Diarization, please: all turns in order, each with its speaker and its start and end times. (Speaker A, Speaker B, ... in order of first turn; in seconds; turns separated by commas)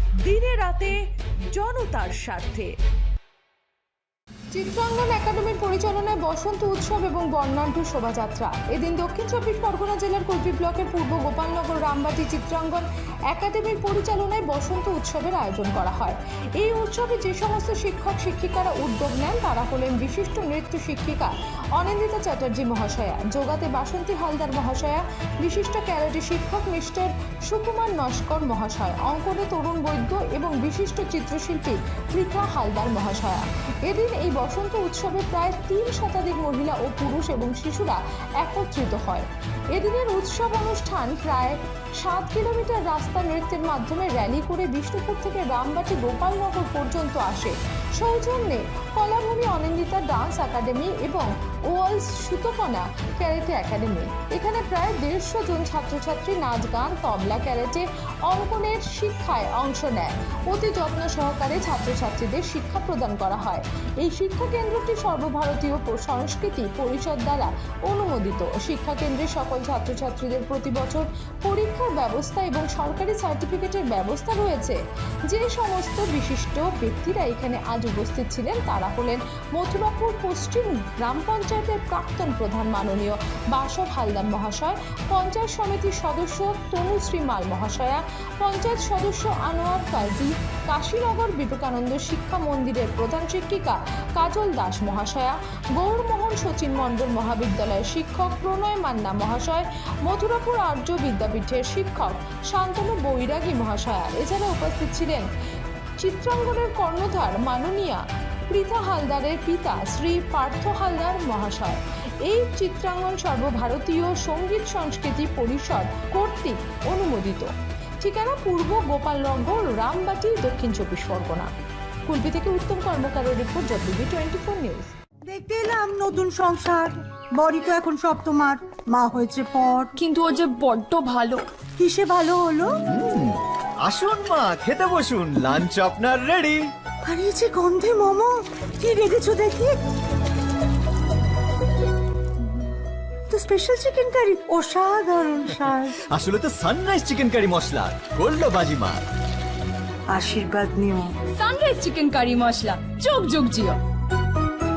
Speaker A: 0.2-1.0, Speaker A: 1.5-2.7, Speaker A: 4.5-105.2, Speaker A: 106.0-121.5, Speaker A: 122.1-124.9, Speaker B: 125.3-129.9, Speaker C: 130.0-131.5, Speaker B: 131.8-132.8, Speaker D: 132.9-136.7, Speaker B: 137.1-139.8, Speaker B: 143.3-146.0, Speaker D: 146.1-149.0, Speaker B: 150.1-151.2, Speaker C: 151.3-153.8